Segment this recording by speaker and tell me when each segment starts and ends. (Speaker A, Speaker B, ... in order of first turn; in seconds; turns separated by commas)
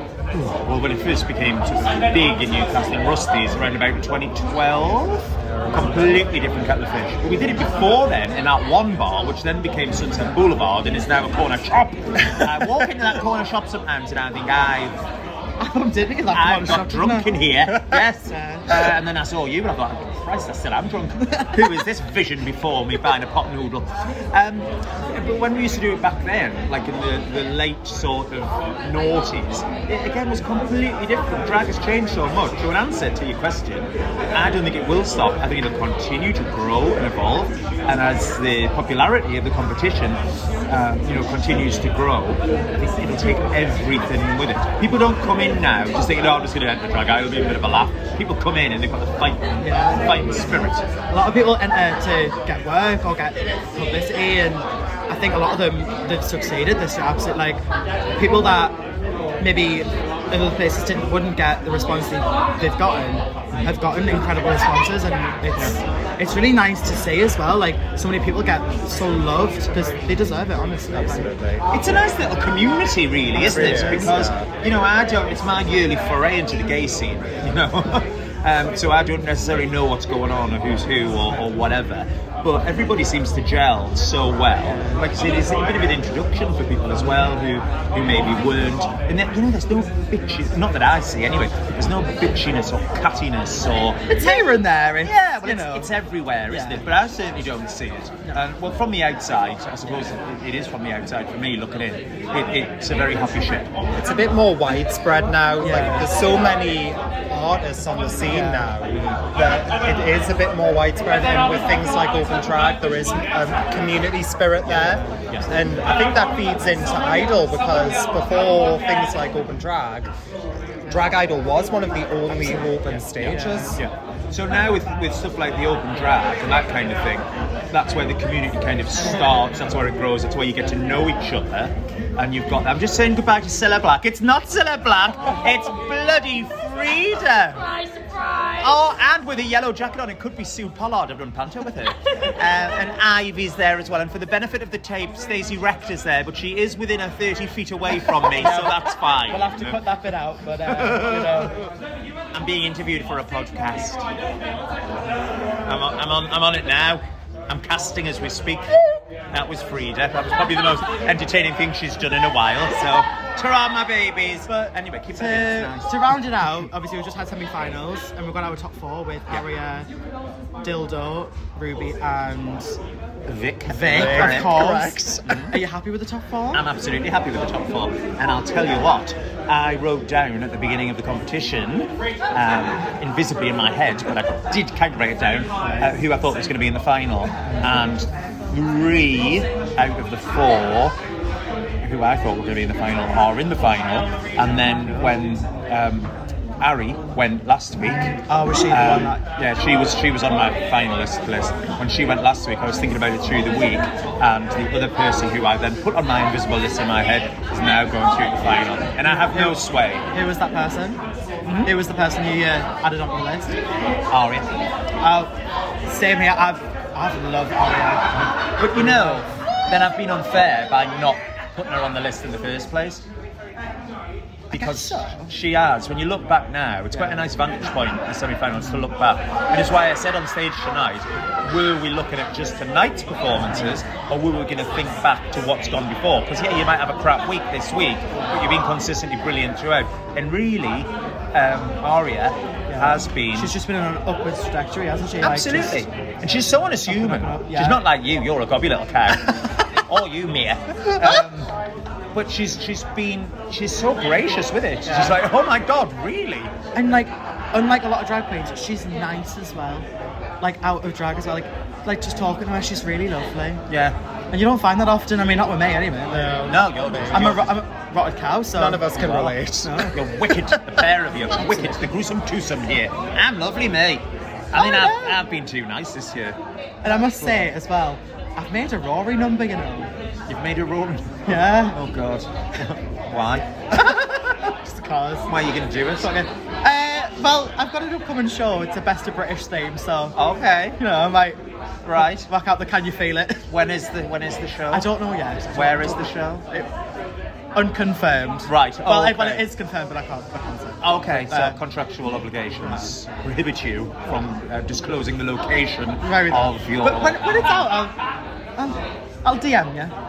Speaker A: 0.3-14.9, Speaker B: 5.4-6.3, Speaker C: 15.6-17.3, Speaker A: 16.3-50.9, Speaker C: 18.2-18.7, Speaker C: 21.2-21.8, Speaker C: 49.6-50.5, Speaker C: 51.1-58.8, Speaker C: 59.4-71.3, Speaker B: 70.9-71.7, Speaker A: 71.7-103.8, Speaker B: 73.3-74.5, Speaker C: 73.5-74.3, Speaker C: 84.7-85.0, Speaker C: 86.9-87.3, Speaker C: 94.0-95.9, Speaker C: 96.5-96.9, Speaker B: 104.0-120.1, Speaker C: 105.6-106.2, Speaker C: 108.3-108.7, Speaker C: 114.7-115.2, Speaker B: 120.9-123.8, Speaker C: 122.4-123.8, Speaker A: 123.7-137.7, Speaker A: 138.6-149.8, Speaker C: 147.9-151.6, Speaker A: 150.7-151.5, Speaker A: 152.3-154.0, Speaker A: 155.7-166.2, Speaker C: 164.4-169.9, Speaker C: 170.6-172.8, Speaker A: 173.2-174.6, Speaker C: 173.6-176.7, Speaker B: 173.9-175.3, Speaker A: 175.2-175.6, Speaker A: 176.5-191.0, Speaker C: 185.6-186.0, Speaker C: 187.4-187.7, Speaker A: 191.8-198.1, Speaker C: 194.6-195.2, Speaker C: 198.1-199.2, Speaker A: 198.7-210.0, Speaker C: 209.0-213.6, Speaker A: 211.5-211.7, Speaker A: 214.1-214.5, Speaker C: 215.0-215.3, Speaker C: 215.8-219.2, Speaker A: 218.6-223.0, Speaker A: 224.5-243.5, Speaker C: 224.5-225.3, Speaker C: 226.9-227.2, Speaker C: 228.6-228.9, Speaker C: 233.4-233.8, Speaker C: 238.1-238.4, Speaker C: 242.7-245.9, Speaker A: 245.2-251.5, Speaker C: 246.8-247.8, Speaker A: 252.1-256.5, Speaker C: 254.8-255.2, Speaker C: 256.7-259.9, Speaker C: 260.4-263.6, Speaker A: 263.7-264.0, Speaker C: 264.3-266.5, Speaker B: 266.1-267.3, Speaker A: 266.4-267.6, Speaker C: 267.1-270.0, Speaker B: 268.6-269.9, Speaker A: 268.9-269.3, Speaker A: 269.9-277.3, Speaker C: 271.1-271.9, Speaker C: 274.5-275.2, Speaker C: 276.8-279.9, Speaker A: 280.3-284.4, Speaker C: 281.2-281.8, Speaker C: 283.7-285.4, Speaker A: 285.3-286.1, Speaker C: 285.9-290.2, Speaker A: 290.1-290.8, Speaker C: 290.8-291.4, Speaker A: 291.8-292.3, Speaker C: 291.9-293.5, Speaker A: 293.5-294.9, Speaker C: 294.7-296.7, Speaker A: 295.5-296.4, Speaker C: 297.5-301.6, Speaker A: 298.4-299.4, Speaker A: 300.8-307.7, Speaker C: 302.6-303.2, Speaker C: 306.0-308.0, Speaker C: 308.6-309.9